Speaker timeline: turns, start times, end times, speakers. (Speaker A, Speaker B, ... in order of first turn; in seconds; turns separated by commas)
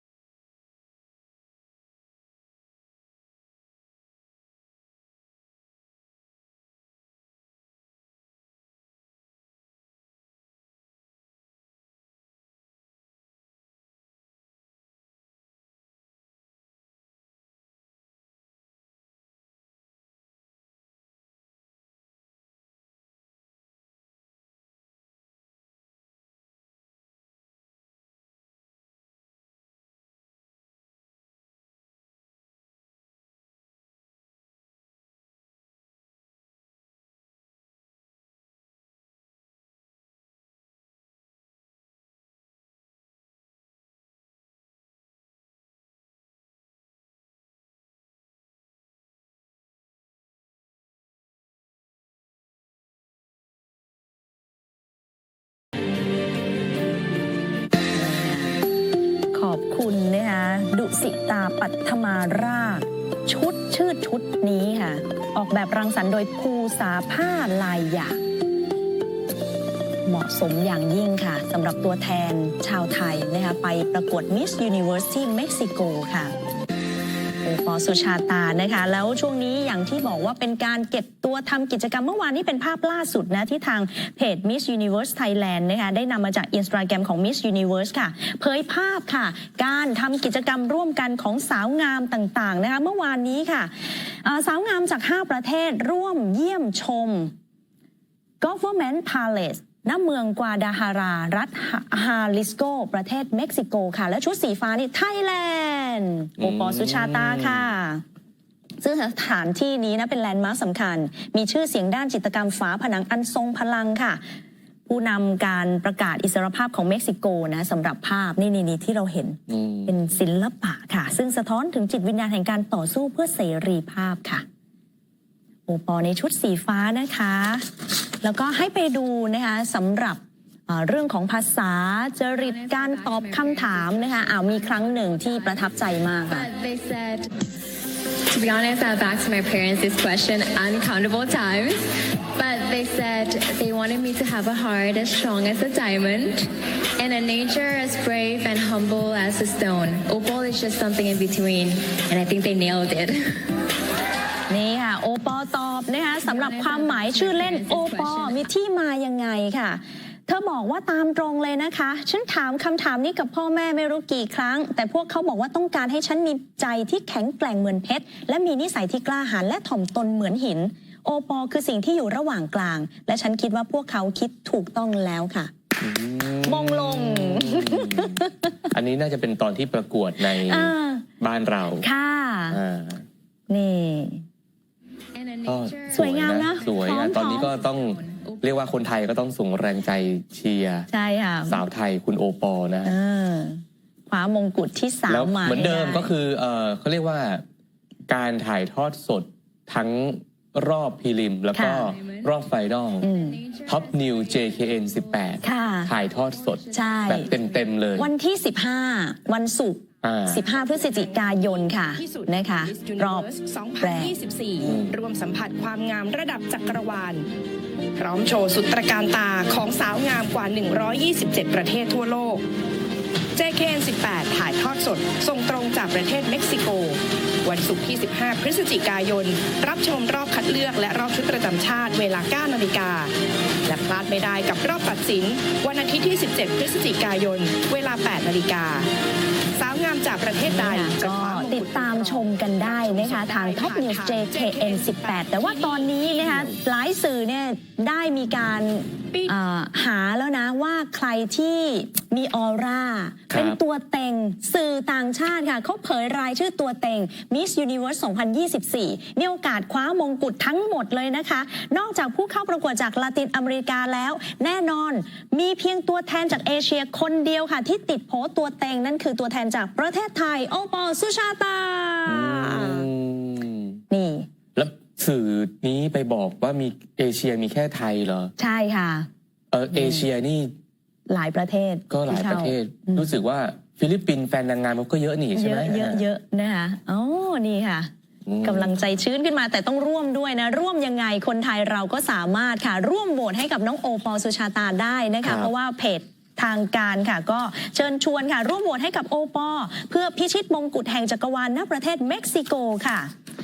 Speaker A: 57.9-58.6, Speaker A: 59.3-68.2, Speaker A: 70.0-76.3, Speaker A: 77.4-97.3, Speaker A: 98.4-108.0, Speaker B: 106.4-107.7, Speaker A: 108.8-114.2, Speaker A: 114.9-124.5, Speaker B: 119.5-120.0, Speaker A: 125.7-127.7, Speaker A: 128.2-136.5, Speaker C: 132.4-135.7, Speaker C: 136.2-137.3, Speaker C: 138.3-141.8, Speaker C: 142.3-153.5, Speaker A: 154.5-175.5, Speaker C: 156.2-158.4, Speaker B: 175.8-181.9, Speaker A: 176.5-178.5, Speaker A: 180.3-181.1, Speaker A: 181.8-182.6, Speaker B: 182.5-183.1, Speaker A: 183.5-184.2, Speaker C: 185.1-188.5, Speaker B: 185.4-190.9, Speaker A: 185.9-187.5, Speaker A: 190.9-191.6, Speaker B: 191.5-192.9, Speaker A: 192.8-196.1, Speaker B: 195.1-197.4, Speaker B: 198.1-203.1, Speaker A: 201.5-201.9, Speaker C: 201.8-202.3, Speaker C: 202.9-207.8, Speaker A: 203.0-203.4, Speaker B: 203.7-208.1, Speaker A: 205.4-205.9, Speaker A: 206.7-207.3, Speaker A: 208.0-213.3, Speaker B: 210.0-210.4, Speaker D: 211.9-217.3, Speaker A: 213.8-214.2, Speaker B: 214.6-214.9, Speaker D: 218.0-222.4, Speaker D: 223.4-233.1, Speaker D: 233.7-238.9, Speaker D: 239.6-246.5, Speaker A: 240.5-272.9, Speaker B: 253.3-253.6, Speaker B: 272.1-273.8, Speaker A: 273.9-274.3, Speaker B: 274.6-278.3, Speaker A: 278.4-279.1, Speaker B: 279.5-280.5, Speaker A: 279.7-280.0, Speaker A: 281.1-283.1, Speaker B: 281.9-286.1, Speaker A: 285.4-287.9, Speaker B: 288.3-288.7, Speaker A: 288.4-303.1, Speaker B: 295.2-295.5